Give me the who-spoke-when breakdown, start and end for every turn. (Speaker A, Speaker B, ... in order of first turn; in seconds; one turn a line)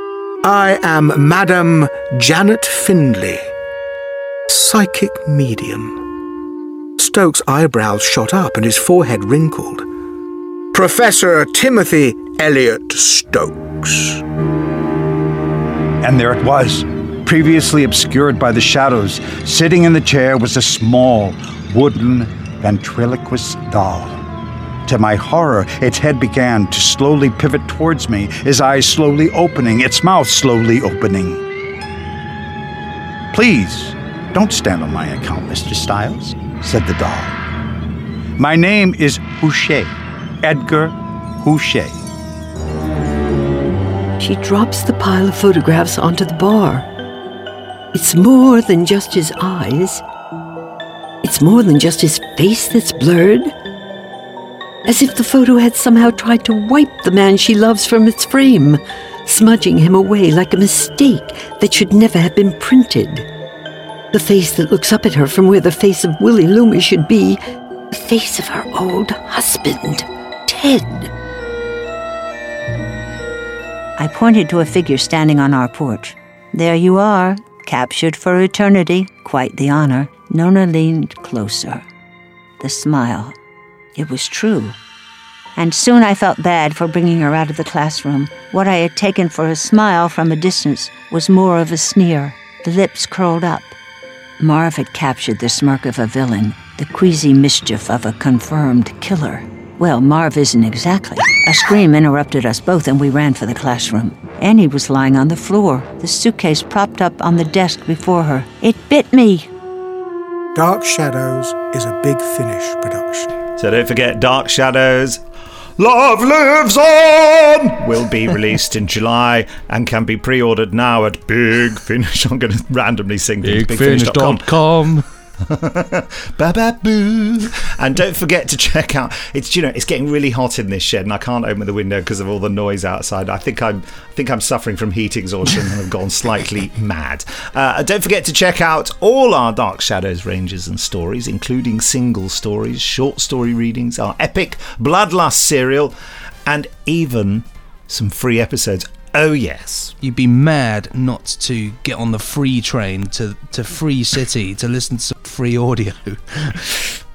Speaker A: 0.4-3.5
Speaker A: 4.5-6.0
Speaker A: 7.0-9.8
Speaker A: 10.7-14.2
Speaker B: 16.0-24.2
Speaker B: 24.9-31.4
Speaker B: 33.3-37.4
Speaker B: 38.4-42.0
Speaker C: 44.2-46.9
Speaker C: 47.9-50.0
Speaker C: 51.2-53.5
Speaker C: 54.9-63.2
Speaker C: 64.1-67.4
Speaker C: 67.9-71.1
Speaker D: 74.0-81.8
Speaker D: 82.6-83.3
Speaker D: 84.0-84.8
Speaker D: 85.5-93.7
Speaker D: 94.4-109.5
Speaker A: 110.5-113.3
Speaker E: 113.6-115.2
Speaker E: 115.8-124.5
Speaker F: 123.4-125.0
Speaker E: 125.5-145.9
Speaker E: 146.4-149.9
Speaker F: 150.0-156.8